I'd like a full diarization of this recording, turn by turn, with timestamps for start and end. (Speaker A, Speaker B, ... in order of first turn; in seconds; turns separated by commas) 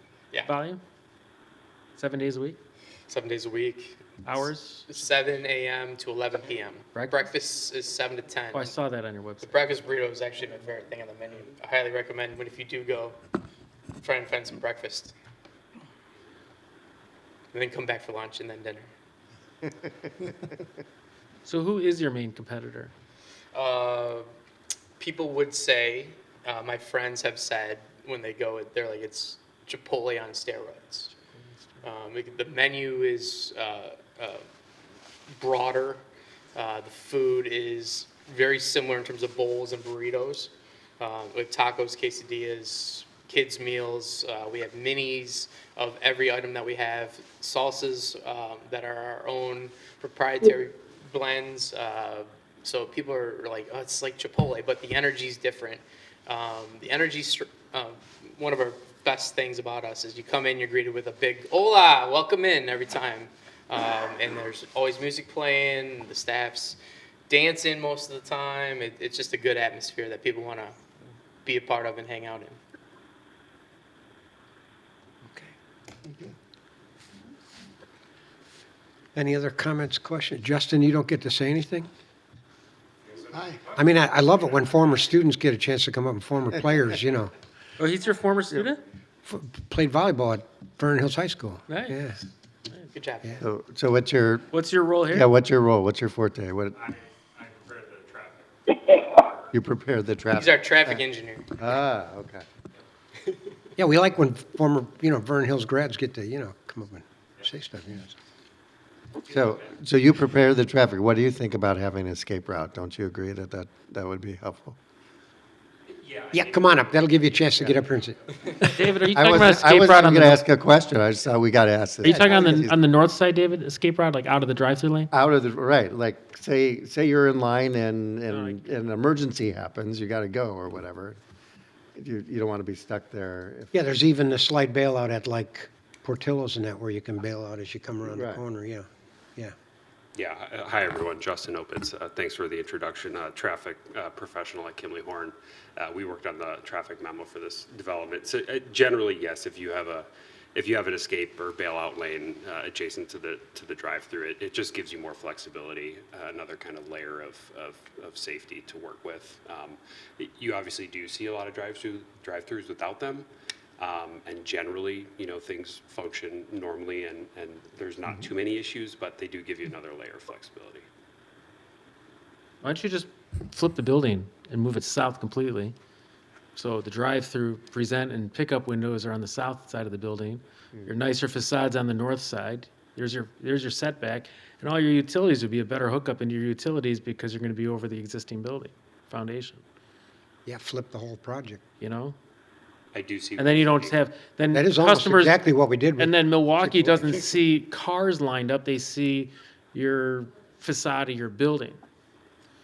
Speaker A: 0.5-0.8, Speaker A: 2.0-2.6, Speaker B: 3.1-8.8, Speaker A: 4.2-5.0, Speaker A: 8.5-9.6, Speaker B: 9.4-13.2, Speaker B: 14.0-15.2, Speaker B: 17.5-18.9, Speaker A: 21.4-22.9, Speaker B: 23.5-24.3, Speaker B: 25.0-31.1, Speaker A: 31.3-31.8, Speaker B: 31.8-34.5, Speaker B: 35.3-36.0, Speaker B: 36.5-70.8, Speaker B: 71.4-72.6, Speaker C: 79.1-81.9, Speaker D: 83.3-83.6, Speaker C: 83.7-87.3, Speaker A: 87.8-88.8, Speaker C: 89.2-92.2, Speaker A: 91.7-92.0, Speaker B: 92.9-93.4, Speaker D: 93.4-94.5, Speaker A: 94.5-95.3, Speaker D: 95.1-96.8, Speaker E: 96.8-99.0, Speaker D: 99.5-101.0, Speaker B: 100.3-101.6, Speaker D: 101.6-102.4, Speaker C: 103.8-108.1, Speaker D: 109.2-114.8, Speaker E: 109.3-109.7, Speaker E: 115.9-117.3, Speaker C: 116.3-118.7, Speaker A: 118.6-120.4, Speaker D: 119.1-122.8, Speaker A: 122.0-125.1, Speaker D: 125.1-131.2, Speaker A: 128.3-128.6, Speaker D: 132.0-133.8, Speaker C: 133.7-139.6, Speaker D: 138.1-138.4, Speaker E: 140.2-163.3, Speaker E: 163.8-170.9, Speaker A: 172.6-175.8, Speaker A: 176.6-189.6, Speaker C: 190.5-191.6, Speaker A: 191.8-192.2, Speaker E: 192.9-194.0, Speaker A: 193.4-195.4, Speaker C: 194.5-197.2, Speaker A: 196.0-201.8